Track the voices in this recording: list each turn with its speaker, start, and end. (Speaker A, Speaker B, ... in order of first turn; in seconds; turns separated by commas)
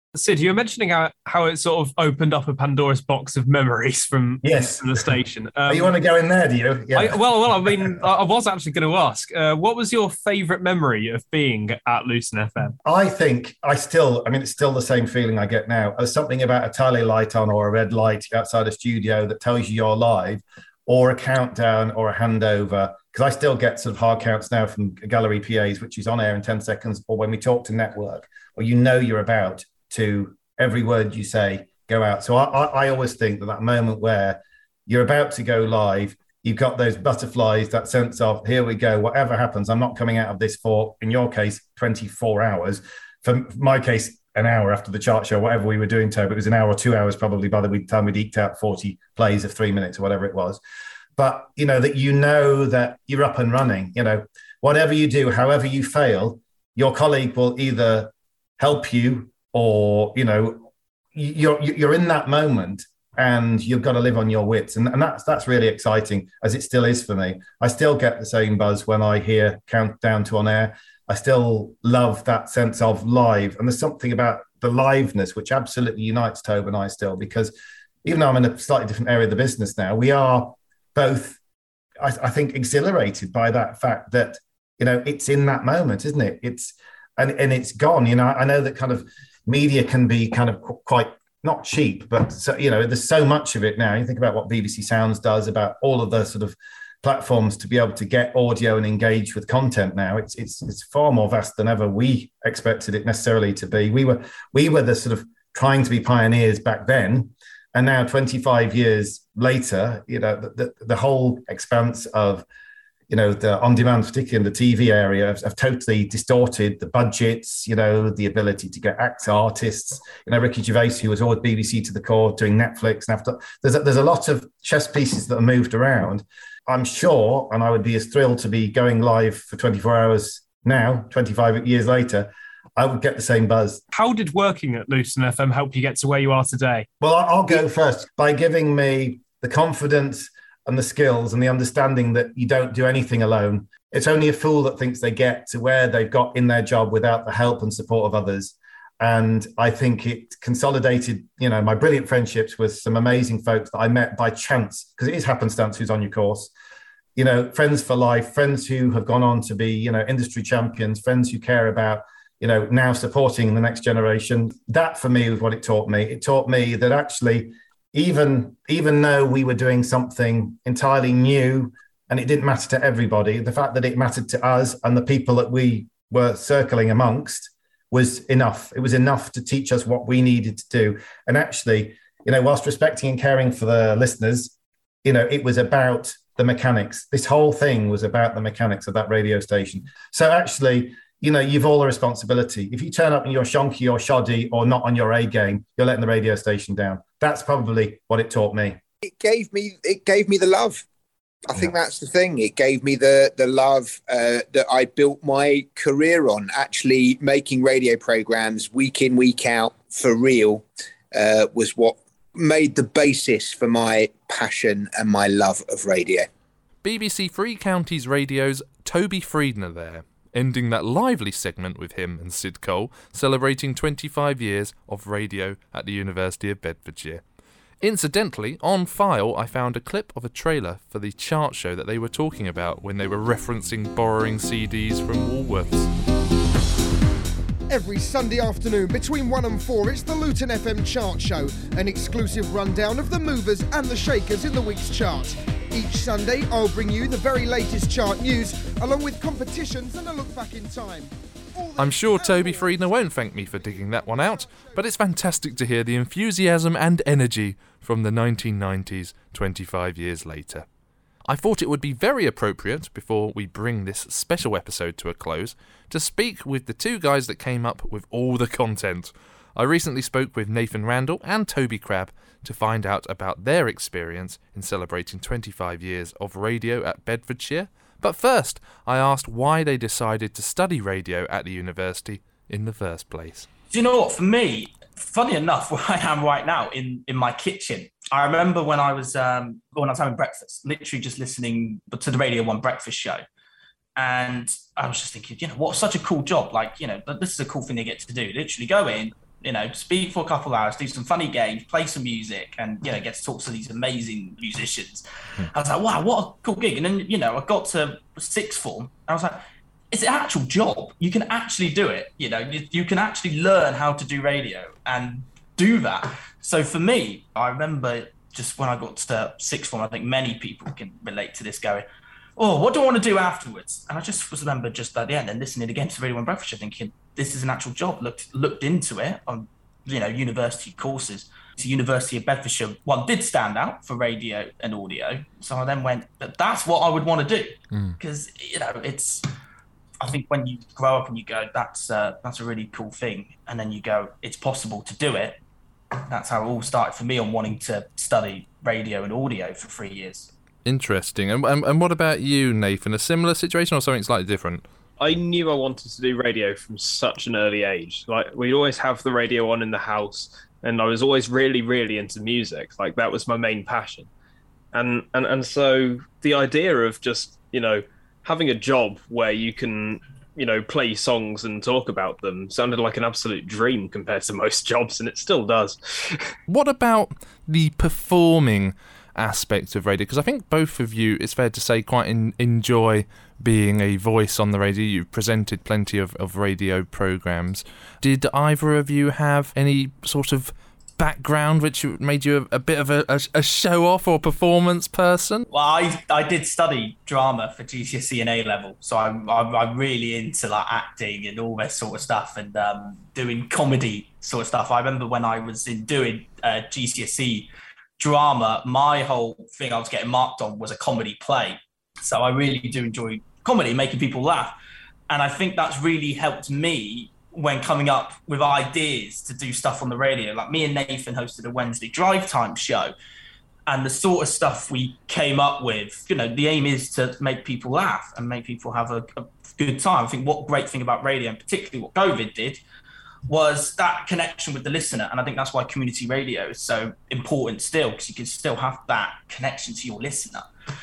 Speaker A: 0.1-5.9, Speaker B: 4.4-5.0, Speaker B: 5.7-7.8, Speaker A: 6.9-12.8, Speaker B: 12.8-50.6, Speaker B: 51.2-81.4, Speaker B: 82.0-112.5, Speaker B: 113.1-133.8, Speaker A: 133.9-136.9, Speaker B: 137.0-156.5, Speaker B: 157.2-184.5, Speaker B: 185.0-198.8, Speaker C: 199.0-200.8, Speaker C: 201.5-216.3, Speaker D: 216.8-227.2, Speaker D: 227.8-235.9, Speaker E: 237.7-254.8, Speaker D: 251.8-260.6, Speaker D: 261.3-283.5, Speaker F: 283.7-293.2, Speaker F: 293.9-321.8, Speaker F: 322.4-339.3, Speaker D: 337.7-338.0, Speaker F: 340.0-345.4, Speaker F: 346.1-350.3, Speaker D: 350.6-354.6, Speaker A: 355.0-364.1, Speaker A: 364.7-376.3, Speaker D: 376.5-395.4, Speaker F: 395.5-414.5, Speaker F: 415.1-422.9, Speaker F: 423.7-432.6, Speaker F: 433.3-440.5